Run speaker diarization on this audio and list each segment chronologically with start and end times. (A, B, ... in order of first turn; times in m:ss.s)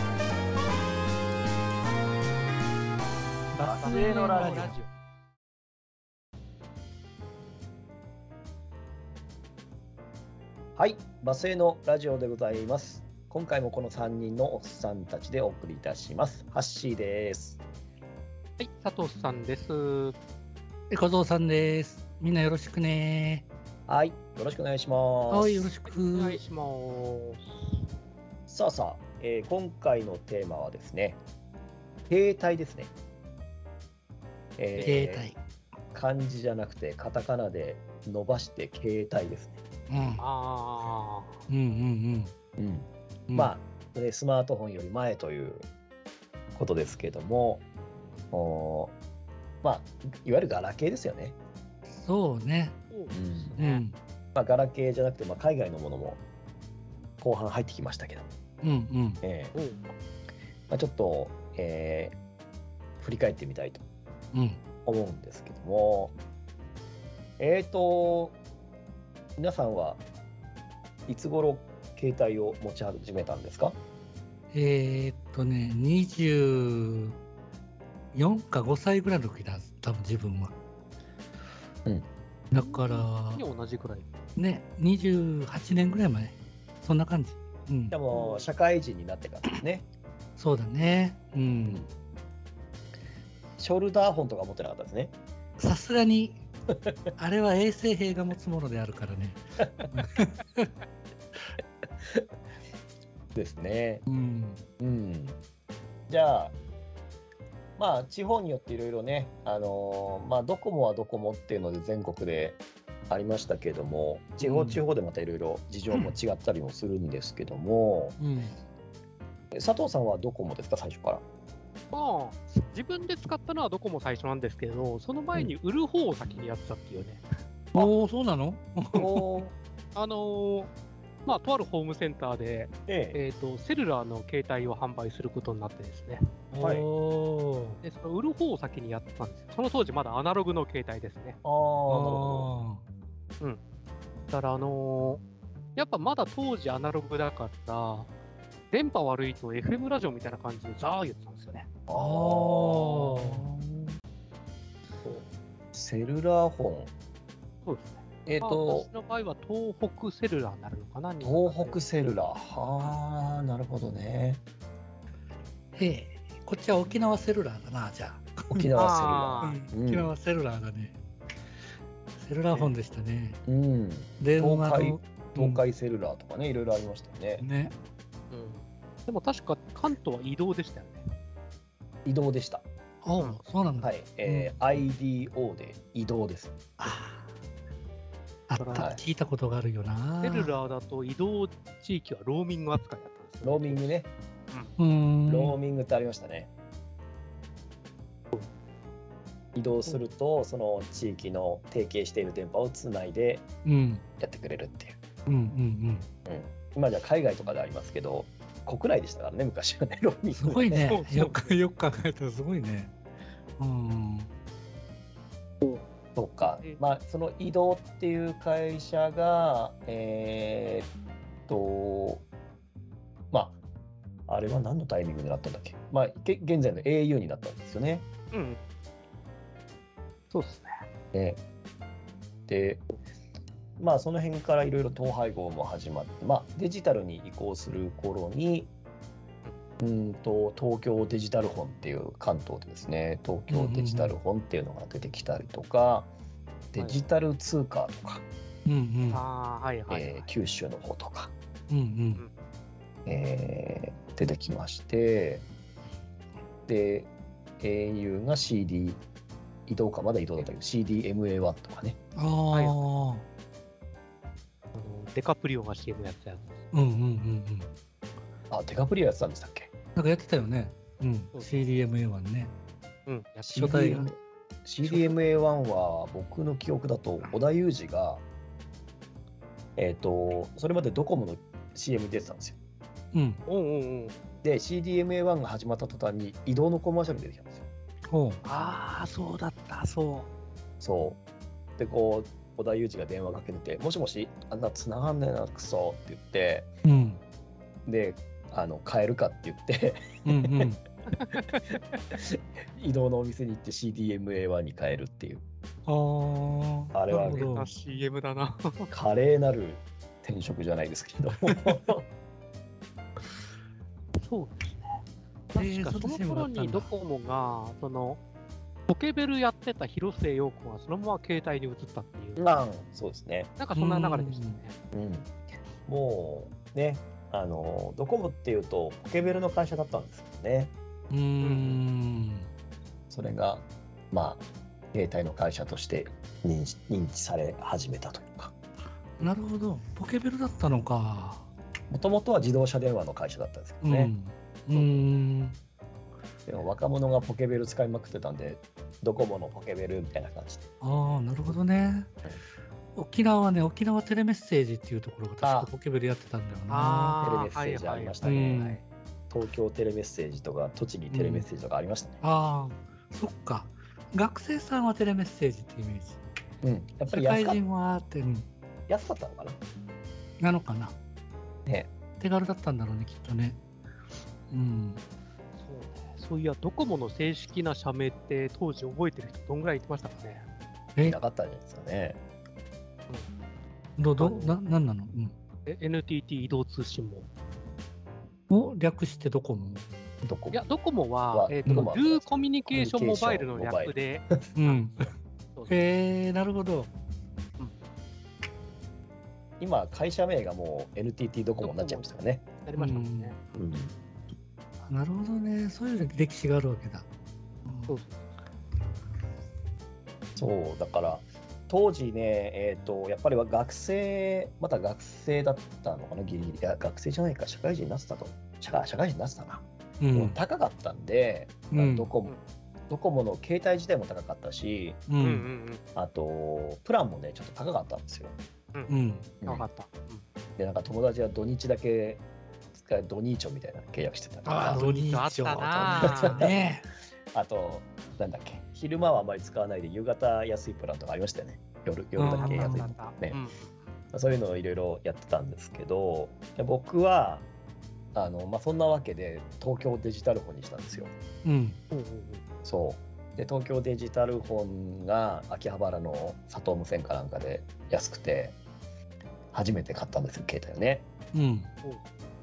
0:03.5-0:04.8 A
0:03.6-0:04.7 B
0:03.7-0:04.9 C
0:10.8-0:17.6 B
0:18.6-0:20.2 C
0:20.9-0:23.5 A
0:23.9-0:25.7 B
0:25.3-0:26.4 A
0:25.9-0:27.8 C
0:28.5-0:31.2 B
0:32.1-0:32.9 B
0:34.6-0:35.3 B
0:34.8-0:35.4 A
0:35.9-0:39.6 B
0:39.9-0:40.2 A
0:40.2-0:41.4 C
0:41.5-0:42.3 A
0:42.6-0:45.7 B
0:46.6-0:47.6 B
0:48.3-0:49.0 B
0:49.6-0:51.4 B
0:51.9-0:52.8 A
0:52.9-0:53.8 C
0:53.1-0:53.6 B
0:53.6-0:54.0 A
0:54.4-0:56.2 B
0:57.2-0:58.3 B
0:58.6-0:59.2 A
0:59.2-0:59.6 B
0:59.5-0:59.8 C
1:00.7-1:02.2 B
1:03.0-1:03.8 B
1:04.3-1:04.6 A
1:04.8-1:06.1 B
1:07.4-1:08.4 B
1:09.4-1:10.0 B
1:11.1-1:13.8 B
1:14.5-1:17.2 A
1:18.1-1:20.5 A
1:22.5-1:23.4 A
1:22.5-1:24.1 C
1:24.4-1:28.0 A
1:27.9-1:29.9 B
1:30.4-1:31.9 A
1:33.6-1:35.1 B
1:35.6-1:36.4 A
1:37.2-1:40.7 A
1:43.4-1:44.0 B
1:44.1-1:44.6 A
1:44.8-1:45.4 B
1:46.1-1:46.6 B
1:47.8-1:58.2 B
1:54.4-1:54.8 A
1:58.2-1:58.5 A
1:59.5-2:01.2 B
2:01.9-2:07.2 C
2:07.8-2:09.2 A
2:09.0-2:09.5 B
2:09.9-2:10.7 C
2:11.2-2:16.2 C
2:12.9-2:13.2 B
2:16.5-2:17.8 A
2:16.6-2:16.9 B
2:17.8-2:21.4 C
2:21.4-2:22.5 B
2:21.9-2:22.8 A
2:24.3-2:25.2 C
2:25.8-2:28.1 C
2:28.7-2:31.7 C
2:31.9-2:34.0 B
2:31.9-2:33.4 A
2:35.7-2:36.9 B
2:37.6-2:41.8 C
2:38.3-2:38.9 B
2:41.2-2:44.4 B
2:45.8-2:48.6 A
2:48.5-2:50.1 B
2:48.8-2:49.6 C
2:49.4-2:51.0 A
2:52.2-2:53.4 A
2:53.5-2:57.5 B
2:54.2-2:55.6 A
2:57.4-2:57.7 A
2:58.3-3:01.0 C
3:02.0-3:02.6 B
3:03.0-3:04.8 A
3:03.8-3:06.6 B
3:06.8-3:07.3 A
3:08.5-3:10.5 A
3:08.6-3:08.9 C
3:08.7-3:09.0 B
3:10.2-3:14.7 C
3:13.4-3:14.1 B
3:14.8-3:15.6 A
3:15.3-3:16.5 B
3:19.6-3:23.4 B
3:23.6-3:24.0 A
3:24.2-3:25.0 B
3:25.3-3:26.1 A
3:26.3-3:30.9 B
3:30.3-3:32.9 A
3:30.8-3:31.6 C
3:33.6-3:34.3 A
3:36.2-3:40.9 B
3:36.4-3:36.8 C
3:41.5-3:42.2 B
3:43.3-3:43.6 B
3:44.3-3:48.1 B
3:48.3-3:48.6 C
3:50.3-3:50.7 C
3:51.1-3:51.4 B
3:52.5-3:52.9 B
3:53.8-3:58.7 B
3:59.8-4:06.1 B
4:03.5-4:04.2 A
4:06.7-4:08.2 B
4:08.7-4:09.2 A
4:09.1-4:10.3 C
4:09.9-4:11.3 B
4:11.7-4:12.2 A
4:13.1-4:15.4 B
4:16.7-4:19.0 B
4:19.7-4:22.0 B
4:22.2-4:23.2 A
4:22.5-4:22.8 C
4:24.7-4:26.6 C
4:26.7-4:27.7 A
4:28.5-4:29.7 B
4:30.0-4:32.5 A
4:31.3-4:31.6 C
4:33.1-4:34.1 C
4:33.5-4:38.2 B
4:33.6-4:34.1 A
4:34.8-4:35.2 C
4:39.8-4:42.6 B
4:43.1-4:43.4 A
4:43.5-4:44.2 C
4:44.4-4:47.6 B
4:48.1-4:48.4 A
4:48.4-4:50.3 C
4:50.8-4:51.2 B
4:51.8-4:56.7 B
4:56.8-4:57.2 A
4:57.9-5:00.7 B
5:00.2-5:00.8 A
5:01.1-5:02.0 C
5:02.2-5:05.4 B
5:05.9-5:07.7 A
5:06.9-5:07.5 B
5:07.1-5:08.9 C
5:08.9-5:12.1 B
5:14.2-5:15.0 C
5:15.5-5:18.2 C
5:15.6-5:16.9 A
5:18.9-5:22.5 C
5:22.4-5:23.5 B
5:23.6-5:24.8 C
5:23.8-5:24.6 A
5:24.9-5:25.3 B
5:25.9-5:30.7 B
5:31.1-5:32.5 A
5:31.4-5:31.8 C
5:33.1-5:38.5 B
5:39.2-5:41.5 A
5:41.9-5:44.1 B
5:43.8-5:45.6 A
5:46.5-5:50.7 B
5:50.8-5:52.1 A
5:53.0-5:57.2 A
5:55.4-5:55.7 B
5:56.7-5:58.2 C
5:57.2-6:02.2 B
5:58.2-5:58.8 A
6:01.1-6:01.5 A
6:02.2-6:06.2 A
6:06.6-6:07.6 B
6:07.1-6:08.5 A
6:08.9-6:09.6 B
6:10.4-6:11.0 A
6:11.7-6:11.9 B
6:12.2-6:13.6 A
6:14.5-6:15.0 A
6:15.6-6:20.4 C
6:21.0-6:22.2 B
6:24.0-6:25.3 A
6:24.2-6:24.4 C
6:25.7-6:27.3 C
6:28.5-6:29.8 A
6:30.2-6:30.6 B
6:30.5-6:34.9 C
6:31.3-6:34.4 B
6:34.6-6:35.1 A
6:35.6-6:35.9 C
6:35.7-6:36.9 A
6:39.6-6:42.4 B
6:41.6-6:42.1 C
6:42.6-6:43.7 C
6:42.8-6:43.4 A
6:43.6-6:43.9 B
6:44.8-6:47.1 A
6:47.7-6:48.0 A
6:47.9-6:48.3 C
6:50.4-7:02.4 B
7:00.0-7:00.4 A
7:01.7-7:02.1 A
7:02.9-7:05.0 B
7:05.1-7:05.5 A
7:05.2-7:05.8 C
7:06.0-7:08.4 B
7:08.7-7:10.2 C
7:08.9-7:09.3 A
7:09.4-7:09.7 B
7:10.6-7:12.2 B
7:12.8-7:14.8 B
7:14.5-7:16.9 A
7:14.7-7:16.5 C
7:15.9-7:16.6 B
7:17.3-7:23.4 B
7:22.2-7:23.0 A
7:22.3-7:23.7 C
7:24.1-7:27.5 B
7:28.1-7:31.1 B
7:31.4-7:31.8 A
7:31.9-7:32.4 C
7:32.6-7:38.6 B
7:39.5-7:41.1 B
7:41.3-7:41.7 A
7:41.8-7:42.2 C